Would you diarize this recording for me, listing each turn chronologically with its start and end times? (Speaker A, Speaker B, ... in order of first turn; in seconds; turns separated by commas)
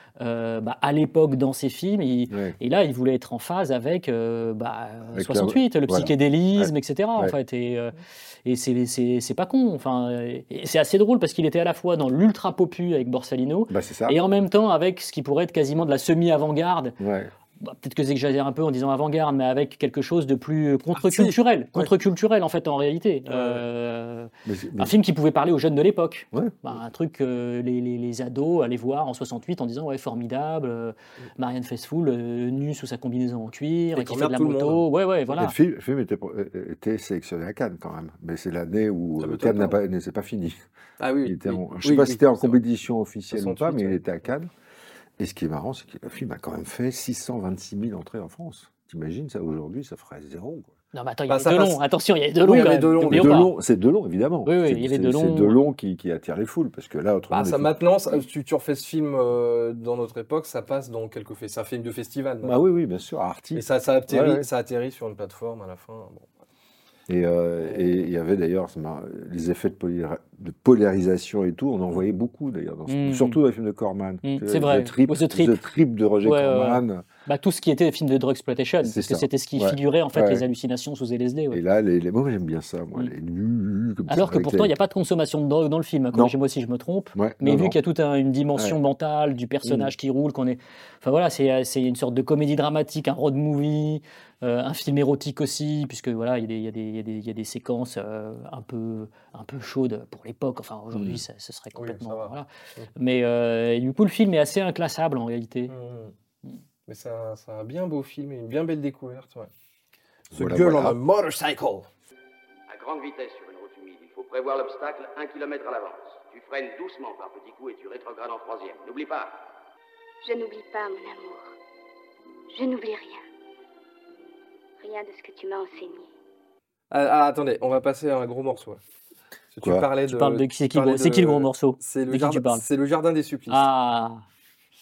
Speaker A: 0.2-17.0, Speaker B: 2.3-2.6, Speaker B: 5.1-7.4, Speaker B: 13.7-14.2, Speaker B: 17.0-17.3, Speaker A: 17.6-35.5, Speaker C: 21.0-21.9, Speaker C: 23.3-23.6, Speaker B: 24.4-24.9, Speaker B: 26.3-26.8, Speaker C: 34.0-34.8, Speaker B: 35.3-40.7, Speaker C: 39.2-39.8, Speaker C: 41.0-42.6, Speaker B: 41.2-44.5, Speaker C: 43.3-44.0, Speaker B: 45.2-50.8, Speaker A: 50.9-53.5, Speaker C: 51.3-51.8, Speaker C: 52.4-53.4, Speaker B: 53.1-57.7, Speaker A: 54.5-55.6, Speaker C: 57.3-62.6, Speaker B: 62.4-64.5, Speaker C: 63.5-66.3, Speaker B: 67.1-77.1, Speaker C: 67.6-68.1, Speaker A: 72.9-73.4, Speaker A: 74.2-75.6, Speaker A: 76.2-81.6, Speaker B: 78.8-80.4, Speaker B: 81.5-84.7, Speaker A: 84.1-105.7, Speaker B: 87.2-87.8, Speaker B: 89.6-89.9, Speaker B: 100.9-101.2, Speaker C: 101.8-102.9, Speaker C: 105.7-106.1, Speaker C: 106.9-109.5, Speaker B: 110.3-111.0, Speaker C: 110.3-111.9, Speaker D: 112.7-119.5, Speaker E: 120.2-121.5, Speaker E: 122.5-123.2, Speaker E: 124.8-126.1, Speaker C: 126.9-128.8, Speaker C: 129.5-133.7, Speaker B: 129.6-129.9, Speaker A: 130.1-132.6, Speaker A: 133.5-134.2